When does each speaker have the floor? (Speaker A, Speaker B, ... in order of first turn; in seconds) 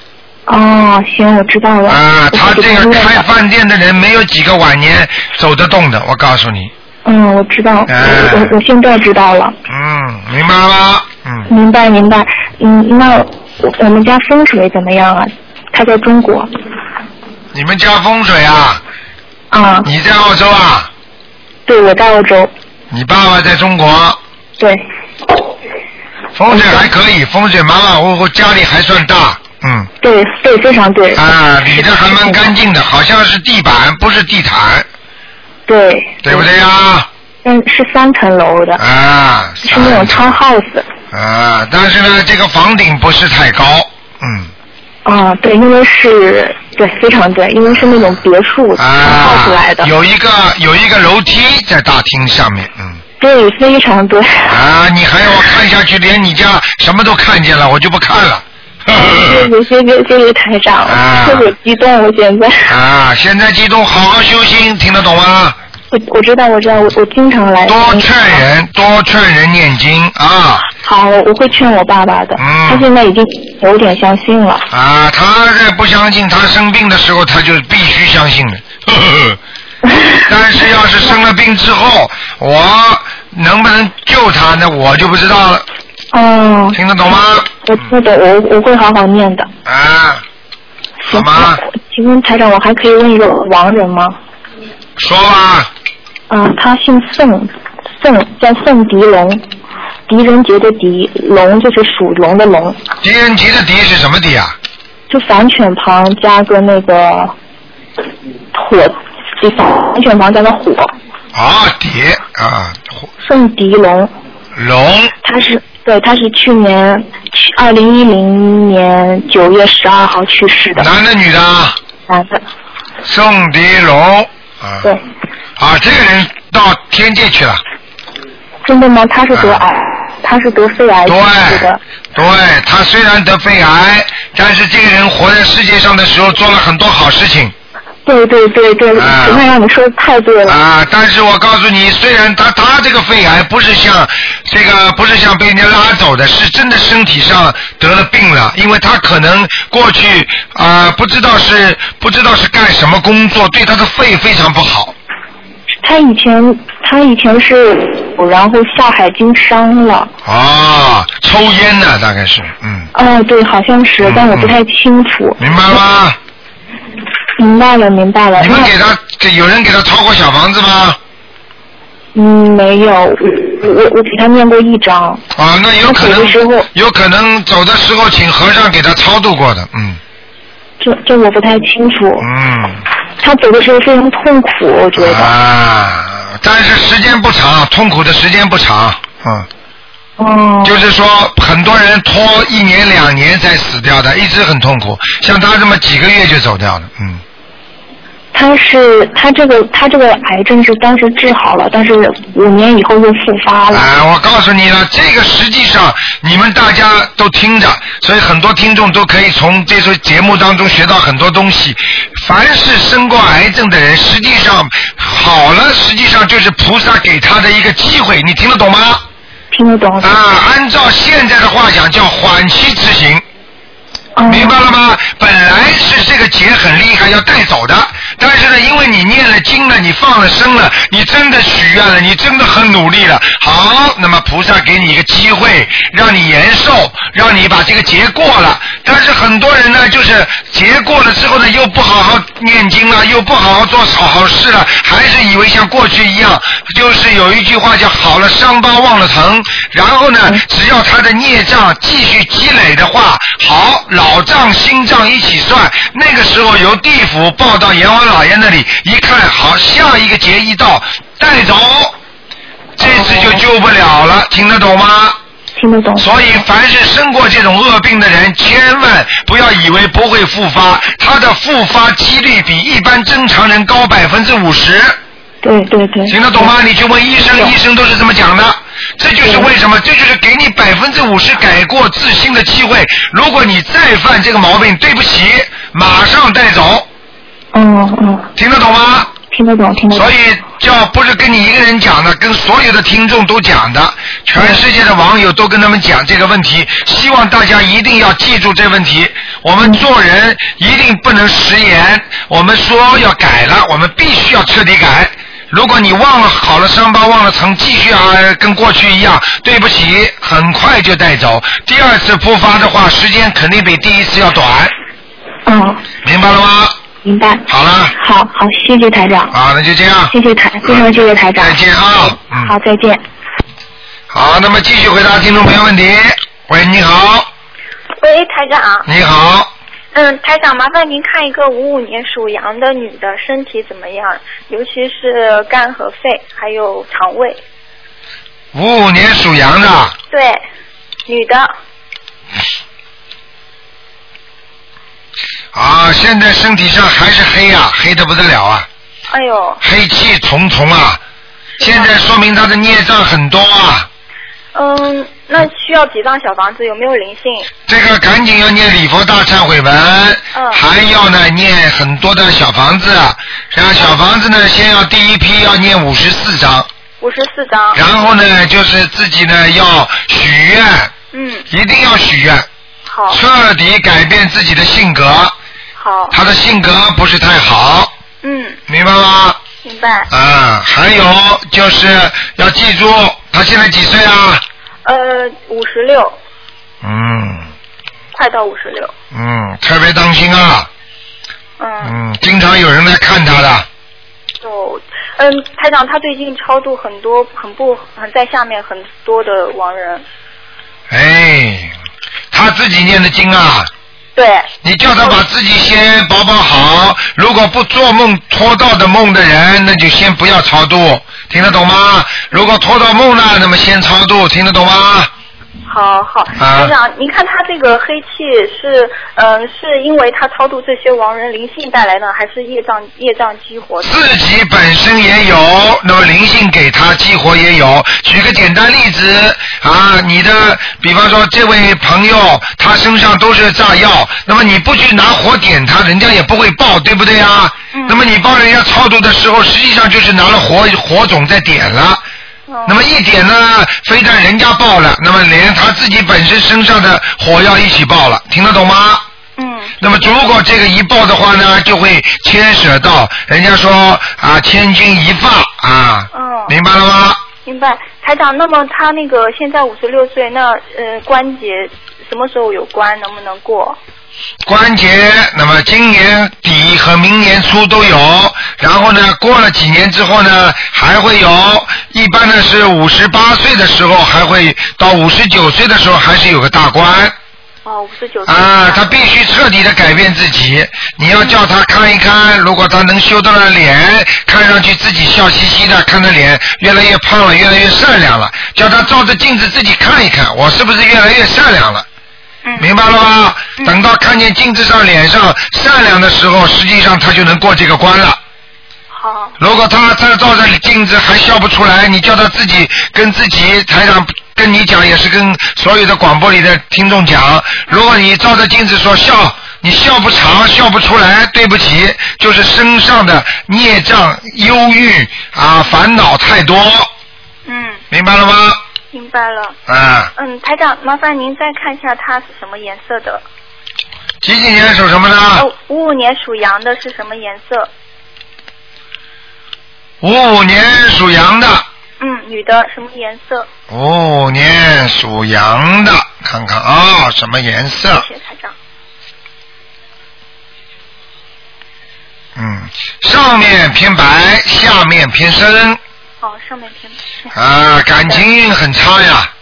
Speaker A: 0.5-3.2, 7.0-9.6, 11.5-16.5, 19.5-19.9, 21.7-22.5, 24.6-24.8, 26.5-26.9, 30.0-32.5, 35.7-36.5, 37.4-38.8, 39.6-40.9, 45.0-49.9, 53.2-54.6, 58.9-62.7, 65.9-68.3, 70.7-74.7, 79.9-80.2, 86.1-86.8, 87.6-89.5, 91.0-94.2, 96.3-99.4, 100.1-102.8, 105.1-107.3, 108.5-110.9, 113.2-114.1, 115.2-120.9, 122.1-122.4, 128.6-131.8, 138.0-140.6, 155.8-160.1, 162.9-165.4, 167.4-168.7, 172.1-175.2, 175.8-176.7, 180.8-182.3, 183.2-185.3, 190.2-190.8, 198.3-203.9, 219.5-220.2, 224.2-224.6, 262.8-263.4, 265.6-266.1, 275.4-276.5, 279.2-279.5, 287.5-288.3, 289.3-290.1, 315.4-315.9, 317.0-319.3, 320.1-321.6, 322.4-323.0
Speaker B: 1.9-6.7, 7.9-8.6, 9.7-11.5, 17.5-18.8, 19.8-20.9, 22.9-24.2, 26.4-29.9, 31.1-34.9, 36.2-37.1, 38.8-40.4, 41.1-44.5, 48.8-53.0, 54.5-59.5, 60.8-61.5, 62.7-65.6, 67.7-70.7, 72.4-72.9, 74.7-79.4, 80.3-85.6, 86.7-87.9, 89.6-90.2, 91.1-91.6, 95.0-95.7, 103.0-104.5, 111.3-113.1, 114.5-115.1, 120.8-121.8, 123.0-124.9, 125.6-127.6, 129.3-129.6, 131.0-137.5, 138.9-139.4, 140.4-154.9, 160.2-162.9, 164.0-164.6, 165.4-166.2, 168.4-171.0, 175.3-180.0, 182.2-182.8, 184.9-189.5, 190.6-197.2, 203.7-219.0, 220.0-223.2, 224.2-261.9, 262.8-265.2, 266.0-274.9, 276.1-286.9, 288.4-289.1, 289.9-314.7, 316.0-316.8, 317.5-317.9, 319.3-322.6, 324.1-327.3, 328.9-329.5, 338.5-339.9, 345.5-348.7, 349.6-351.0, 351.6-353.9, 357.7-366.7, 367.7-370.9, 371.5-372.5, 373.1-375.3, 376.1-377.9, 378.7-379.4, 380.1-384.4, 386.8-387.5, 389.1-390.7, 391.8-393.7, 400.9-401.7, 402.3-403.7, 404.6-415.1, 416.4-416.7, 423.8-442.0, 442.6-449.0, 449.8-457.2, 464.4-477.1, 478.2-491.9, 492.6-498.2, 499.4-516.9, 517.9-518.6, 519.7-520.1, 524.2-525.5, 530.0-531.6, 533.7-538.0, 542.4-545.8, 547.3-549.3
Speaker C: 328.0-328.9, 329.9-337.4, 340.1-340.4, 341.1-341.5, 349.1-349.6, 351.6-351.9, 354.5-357.5, 360.3-360.6, 367.0-367.8, 371.1-371.5, 372.9-373.2, 375.8-376.2, 378.2-378.6, 379.6-380.1, 384.8-386.1, 388.1-388.9, 391.6-391.9, 394.4-400.0, 404.1-404.5, 415.6-424.1, 437.7-438.0, 442.5-442.8, 449.4-450.2, 456.1-456.6, 457.4-463.8, 477.6-479.0, 492.4-492.7, 498.9-499.4, 517.5-517.8, 518.9-519.6, 520.1-523.2, 525.3-527.7, 532.0-533.5, 537.9-538.5, 546.2-547.3